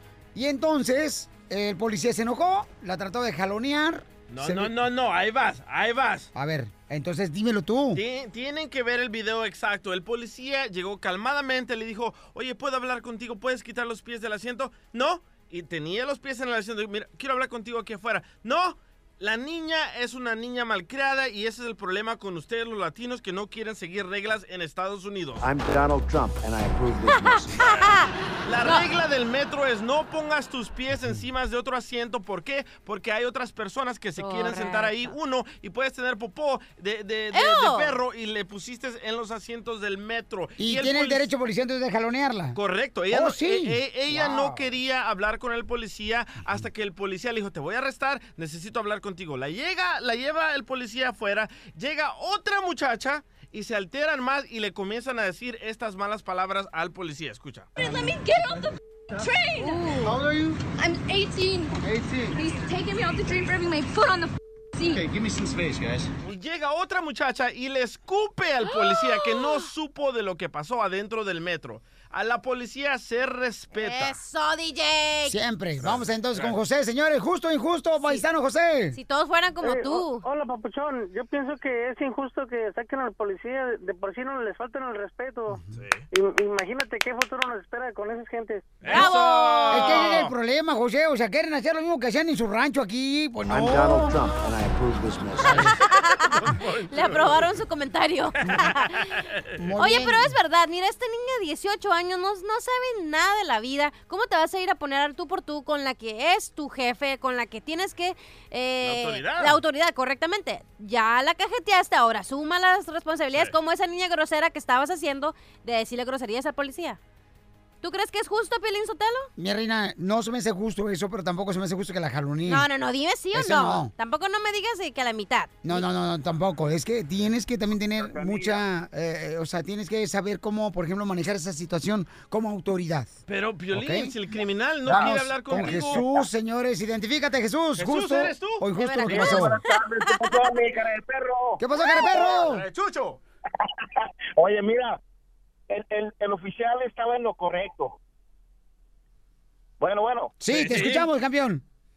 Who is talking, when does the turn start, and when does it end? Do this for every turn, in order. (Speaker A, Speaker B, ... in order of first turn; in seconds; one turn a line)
Speaker A: 0.3-4.7
Speaker B: 4.3-6.3
Speaker A: 6.3-8.0
Speaker B: 7.9-25.5
Speaker C: 25.4-27.7
Speaker D: 27.1-28.9
Speaker B: 28.4-41.3
Speaker D: 34.2-35.1
Speaker D: 37.3-38.0
Speaker A: 40.6-42.6
Speaker B: 42.5-57.7
Speaker A: 43.1-44.4
Speaker E: 57.8-59.9
Speaker D: 59.6-60.2
Speaker E: 60.8-61.8
Speaker E: 62.3-65.1
Speaker B: 66.2-74.2
Speaker D: 73.7-75.4
Speaker A: 75.2-79.0
Speaker B: 75.8-76.6
Speaker D: 78.9-80.2
Speaker F: 79.6-85.6
Speaker B: 85.7-86.0
Speaker F: 86.1-88.8
Speaker B: 88.8-90.3
Speaker D: 88.9-90.0
Speaker A: 89.7-94.2
Speaker C: 93.5-95.7
Speaker A: 95.4-95.7
Speaker D: 95.7-99.1
Speaker B: 96.3-97.6
Speaker A: 99.6-100.3
Speaker D: 99.8-117.0
Speaker B: 108.8-109.6
Speaker D: 117.8-119.3
Speaker A: 119.4-122.7
Speaker D: 122.5-125.8
Speaker A: 123.3-123.9
Speaker A: 125.6-133.1
Speaker B: 133.3-136.1
Speaker A: 133.7-134.1
Speaker A: 134.8-139.6
Speaker B: 137.8-139.4
Speaker D: 138.8-139.7
Speaker G: 139.2-141.6
Speaker A: 141.6-142.7
Speaker B: 142.4-143.0
Speaker G: 144.4-145.0
Speaker G: 145.7-148.0
Speaker G: 149.8-150.3
Speaker A: 150.4-151.6
Speaker B: 150.5-151.1